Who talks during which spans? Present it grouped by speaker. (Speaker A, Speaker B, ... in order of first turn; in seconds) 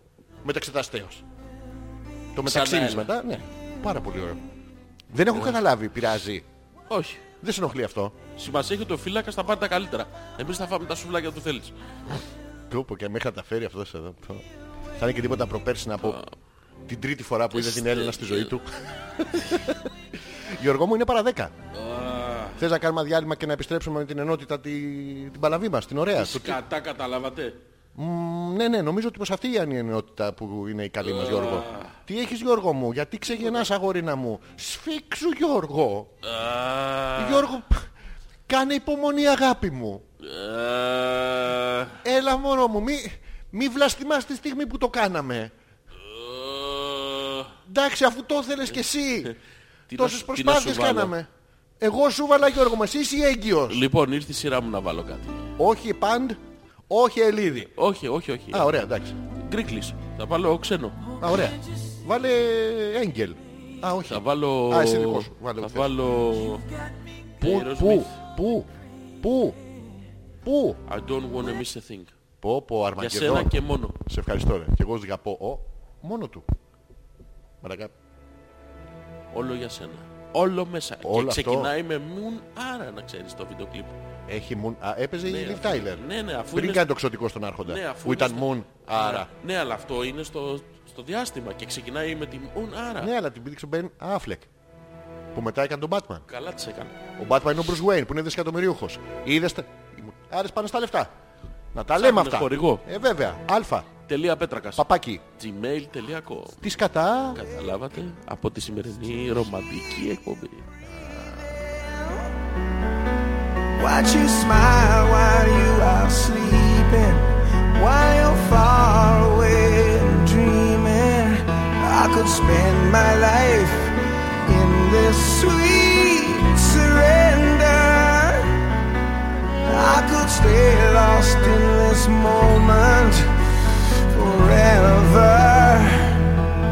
Speaker A: 0.4-1.2, 2.3-4.4, 5.1-6.4, 7.4-8.2, 12.7-14.4, 15.0-16.2, 16.9-19.9, 20.5-21.5, 22.6-26.6, 27.9-36.1, 37.1-37.9, 38.5-40.0, 42.0-45.5, 47.7-49.3, 49.9-51.3, 51.8-53.8, 55.6-57.7, 58.5-59.1, 61.2-65.9, 67.4-68.7, 69.2-69.6, 70.4-70.8, 72.4-76.5, 77.6-77.9, 81.0-81.7, 84.3-89.3, 93.0-94.5, 95.3-96.2, 97.2-101.1, 101.7-103.9, 104.8-105.2, 106.6-107.4, 110.9-111.6
Speaker B: 2.4-3.1, 6.9-7.2, 8.3-11.7, 16.0-16.3, 17.5-18.5, 21.7-22.6, 26.2-27.6, 31.0-32.0, 36.2-37.5, 40.2-42.0, 46.0-47.5, 49.9-51.1, 53.7-55.5, 57.7-58.7, 59.4-61.1, 64.1-66.6, 67.4-68.2, 70.8-72.1, 73.0-74.0, 79.3-83.9, 85.2-86.9, 87.7-93.1, 96.3-97.0, 101.9-102.8, 104.1-104.8, 105.3-106.6, 107.3-110.6
Speaker C: 111.7-112.3, 113.8-123.9, 124.4-128.7, 129.7-133.3, 134.1-136.3